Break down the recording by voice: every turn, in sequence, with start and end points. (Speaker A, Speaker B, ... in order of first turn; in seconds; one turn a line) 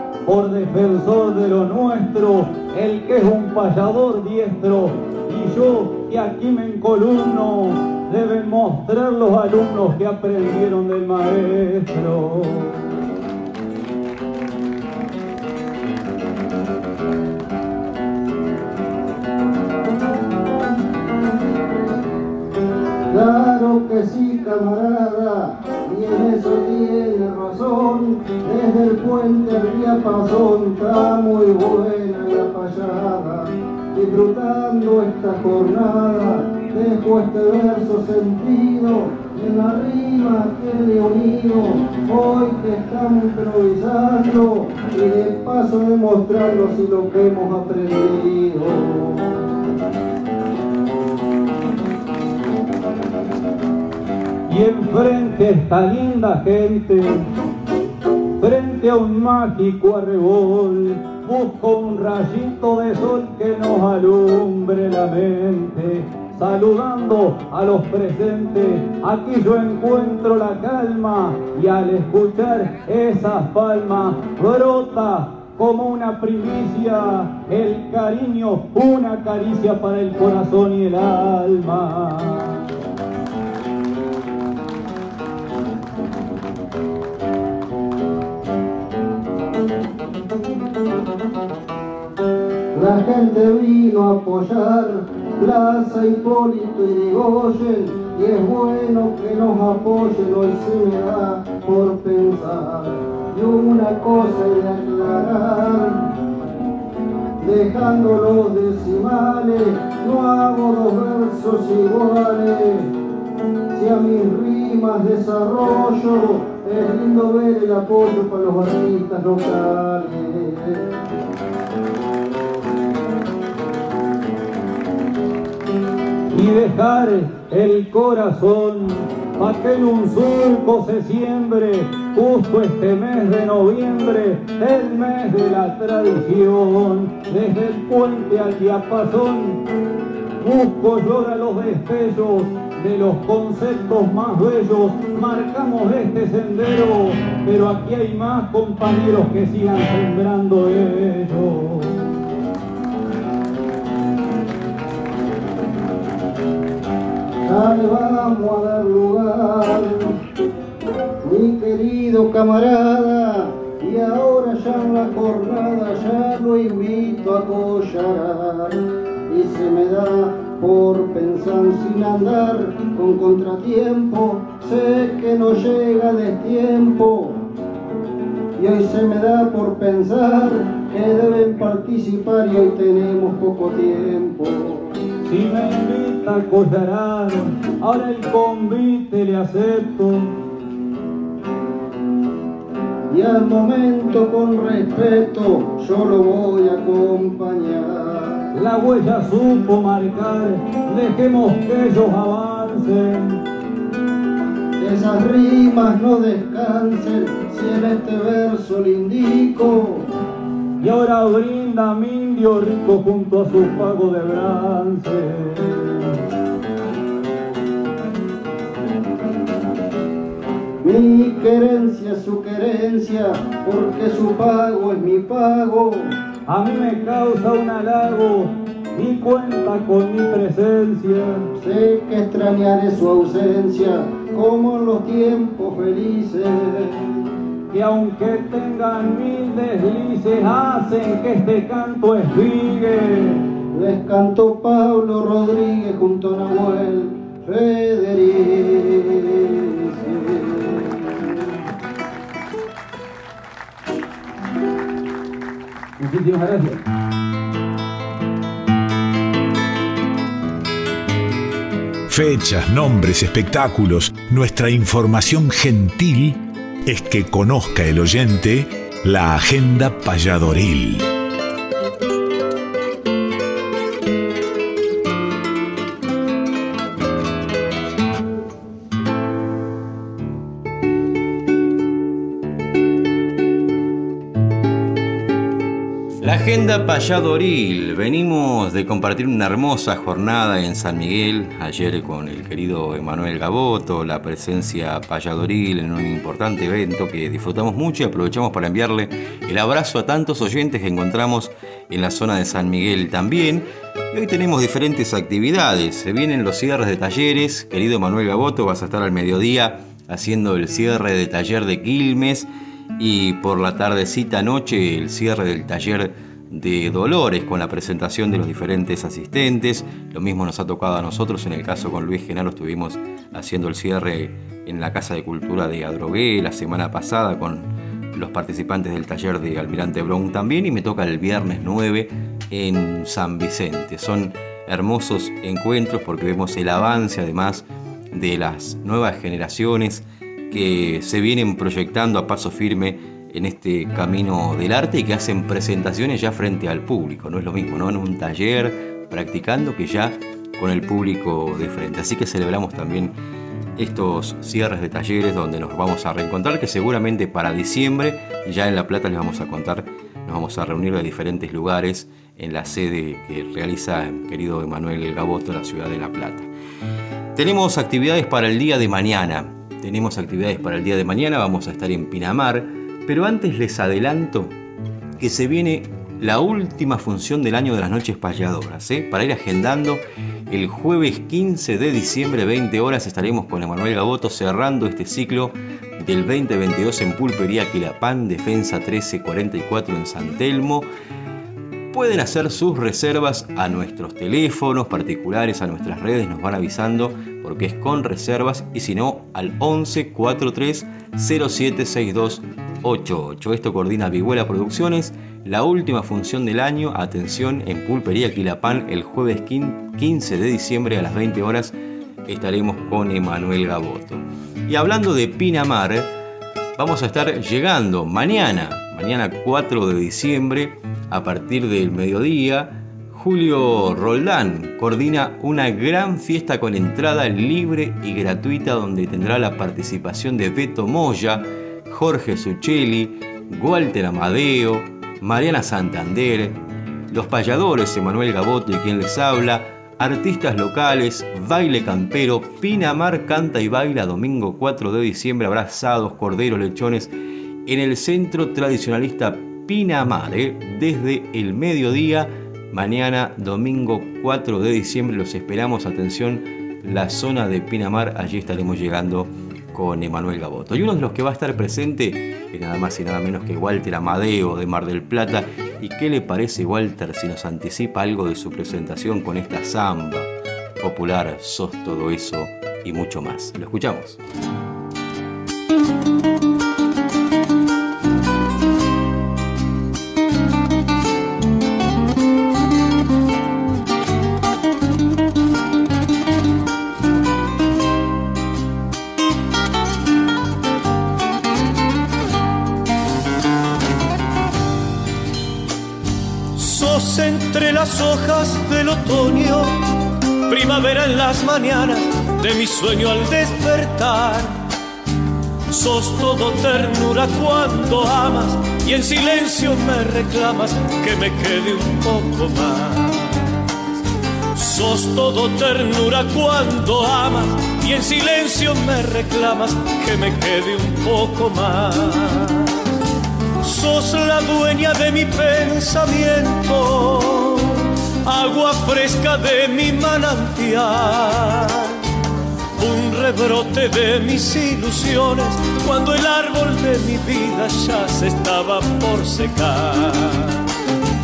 Speaker A: 0.3-12.8
Speaker B: 23.1-49.4
Speaker A: 54.5-57.3
Speaker A: 58.4-82.6
Speaker B: 92.7-106.1
Speaker B: 107.4-112.9
Speaker B: 113.7-120.9
Speaker A: 126.3-139.6
Speaker A: 140.4-152.0
Speaker B: 157.4-160.2
Speaker B: 161.2-168.8
Speaker B: 169.3-177.4
Speaker B: 178.6-184.9
Speaker A: 185.3-190.3
Speaker B: 193.1-198.4
Speaker A: 198.5-203.4
Speaker B: 204.8-210.1
Speaker A: 210.8-216.1
Speaker B: 220.8-226.1
Speaker A: 226.5-231.5
Speaker B: 231.6-237.1
Speaker A: 237.7-243.4
Speaker B: 243.7-251.2
Speaker A: 256.0-256.8
Speaker C: 262.1-271.1
Speaker D: 286.2-353.1
Speaker D: 353.8-366.5
Speaker D: 367.4-374.6
Speaker D: 375.2-390.9
Speaker D: 391.9-411.7
Speaker D: 412.3-416.1
Speaker D: 416.8-436.6
Speaker D: 437.1-447.1
Speaker D: 447.7-470.3
Speaker D: 470.8-474.2
Speaker E: 496.5-499.9
Speaker E: 500.4-504.7
Speaker E: 505.7-513.6
Speaker E: 514.5-522.7
Speaker E: 523.6-532.0
Speaker E: 532.8-540.7